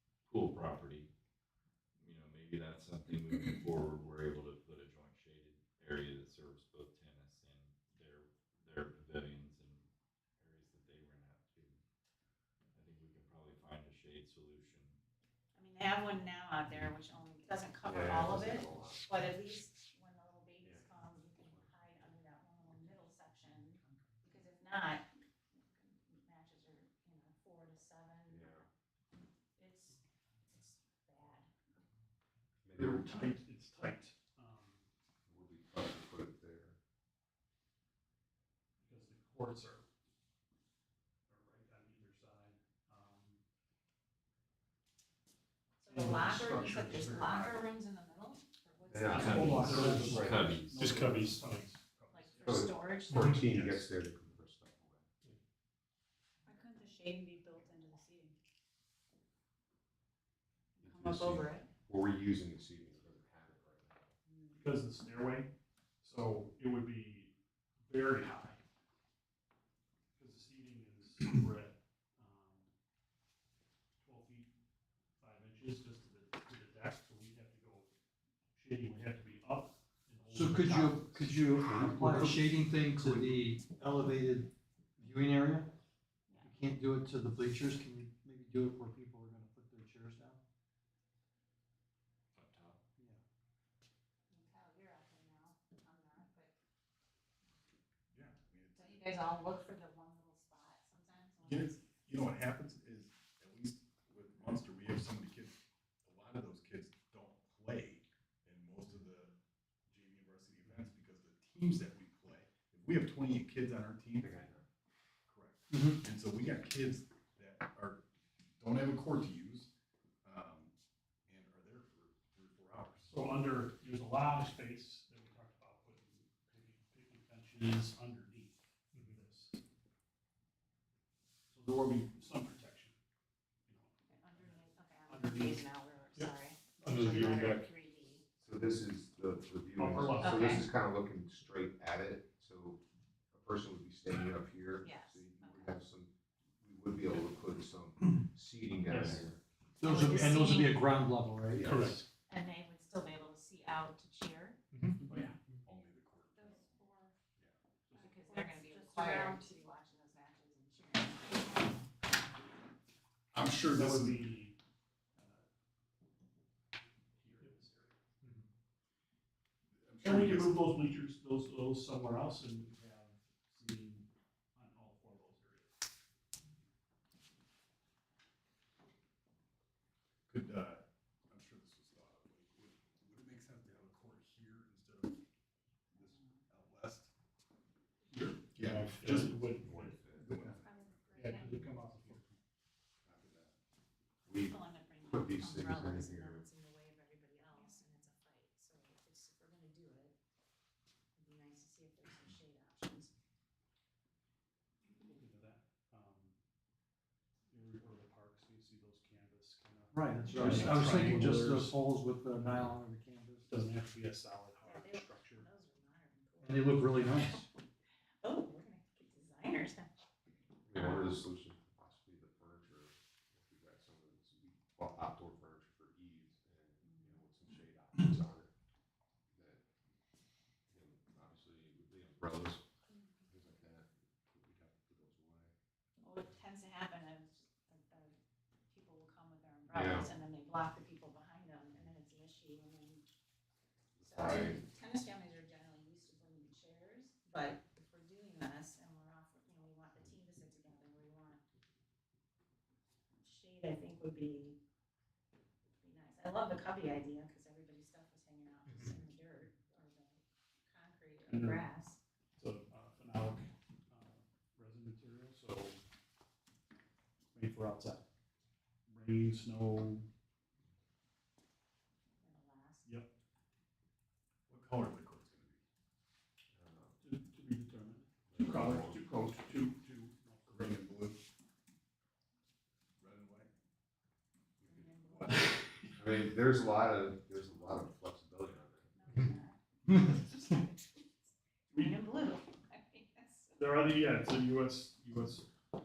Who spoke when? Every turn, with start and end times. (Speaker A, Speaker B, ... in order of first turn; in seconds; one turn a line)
Speaker A: 0.3-1.1
Speaker A: 2.0-9.9
Speaker A: 10.4-11.8
Speaker A: 12.7-15.0
Speaker B: 15.6-28.6
Speaker C: 17.9-19.1
Speaker C: 20.6-20.9
Speaker C: 28.3-28.7
Speaker B: 29.6-31.5
Speaker C: 32.6-33.3
Speaker D: 32.8-34.8
Speaker C: 35.3-36.8
Speaker D: 38.8-39.9
Speaker D: 41.3-43.4
Speaker B: 45.8-49.9
Speaker D: 45.9-47.3
Speaker C: 48.9-50.7
Speaker D: 49.1-52.6
Speaker A: 49.1-50.8
Speaker E: 49.7-50.1
Speaker F: 50.8-51.7
Speaker B: 52.1-53.6
Speaker C: 52.4-55.1
Speaker F: 53.1-53.4
Speaker F: 56.5-58.4
Speaker B: 57.4-58.1
Speaker B: 60.8-61.7
Speaker C: 60.8-64.2
Speaker B: 64.3-64.7
Speaker D: 64.6-65.5
Speaker D: 66.0-67.3
Speaker D: 67.8-68.6
Speaker D: 70.2-72.7
Speaker D: 74.0-74.5
Speaker D: 75.2-77.9
Speaker D: 78.5-81.0
Speaker E: 80.3-85.7
Speaker C: 80.6-82.4
Speaker C: 83.0-83.3
Speaker B: 86.3-86.6
Speaker E: 86.4-90.4
Speaker A: 92.3-92.8
Speaker B: 94.3-96.5
Speaker G: 98.1-99.7
Speaker B: 98.8-101.9
Speaker G: 101.4-109.3
Speaker G: 109.9-114.5
Speaker C: 114.2-114.6
Speaker G: 115.3-118.0
Speaker E: 115.7-116.0
Speaker G: 118.6-119.7
Speaker G: 120.2-120.7
Speaker G: 121.3-123.3
Speaker D: 123.1-129.6
Speaker D: 131.5-132.9
Speaker D: 133.7-137.1
Speaker B: 134.1-138.2
Speaker F: 136.9-137.7
Speaker C: 138.4-149.4
Speaker D: 139.8-140.6
Speaker B: 140.2-140.7
Speaker B: 144.8-145.8
Speaker D: 148.8-149.3
Speaker E: 149.8-151.8
Speaker B: 149.8-150.9
Speaker C: 151.5-152.0
Speaker F: 151.7-152.1
Speaker B: 152.3-154.6
Speaker D: 155.0-155.4
Speaker G: 155.1-156.6
Speaker F: 156.3-157.2
Speaker B: 157.9-161.7
Speaker F: 158.1-159.6
Speaker G: 163.3-164.4
Speaker D: 163.7-164.6
Speaker D: 165.2-165.4
Speaker D: 167.1-168.4
Speaker G: 169.8-170.8
Speaker D: 170.0-175.7
Speaker G: 180.3-185.2
Speaker G: 185.9-187.1
Speaker B: 186.0-186.4
Speaker D: 188.1-190.0
Speaker G: 188.1-189.6
Speaker C: 189.6-190.3
Speaker G: 190.2-192.4
Speaker E: 190.2-190.6
Speaker F: 190.6-191.5
Speaker E: 191.2-192.2
Speaker D: 191.2-191.7
Speaker G: 193.0-193.6
Speaker C: 194.3-196.4
Speaker B: 194.4-200.2
Speaker B: 201.2-203.1
Speaker D: 204.8-206.3
Speaker D: 207.5-211.8
Speaker E: 209.9-213.6
Speaker D: 213.5-215.5
Speaker B: 214.6-217.5
Speaker E: 216.4-217.5
Speaker B: 218.2-219.9
Speaker C: 220.7-228.5
Speaker B: 220.8-221.2
Speaker B: 226.8-227.2
Speaker C: 229.3-229.6
Speaker C: 230.7-232.7
Speaker B: 232.9-233.3
Speaker C: 233.3-235.5
Speaker B: 236.0-238.1
Speaker B: 238.7-243.1
Speaker C: 239.7-240.1
Speaker C: 244.0-244.6
Speaker B: 244.0-251.4
Speaker B: 253.2-254.6
Speaker B: 255.8-262.0
Speaker D: 261.2-261.7
Speaker D: 262.4-265.8
Speaker D: 267.3-268.0
Speaker D: 268.9-270.1
Speaker B: 272.2-272.9
Speaker D: 272.9-273.1
Speaker G: 274.5-275.6
Speaker C: 276.5-277.0
Speaker D: 277.0-280.9
Speaker C: 278.3-279.1
Speaker G: 280.5-281.2
Speaker G: 283.0-283.5
Speaker G: 284.6-286.1
Speaker B: 284.6-285.5
Speaker C: 286.0-288.9
Speaker B: 288.9-293.6
Speaker D: 291.7-292.0
Speaker D: 293.6-295.5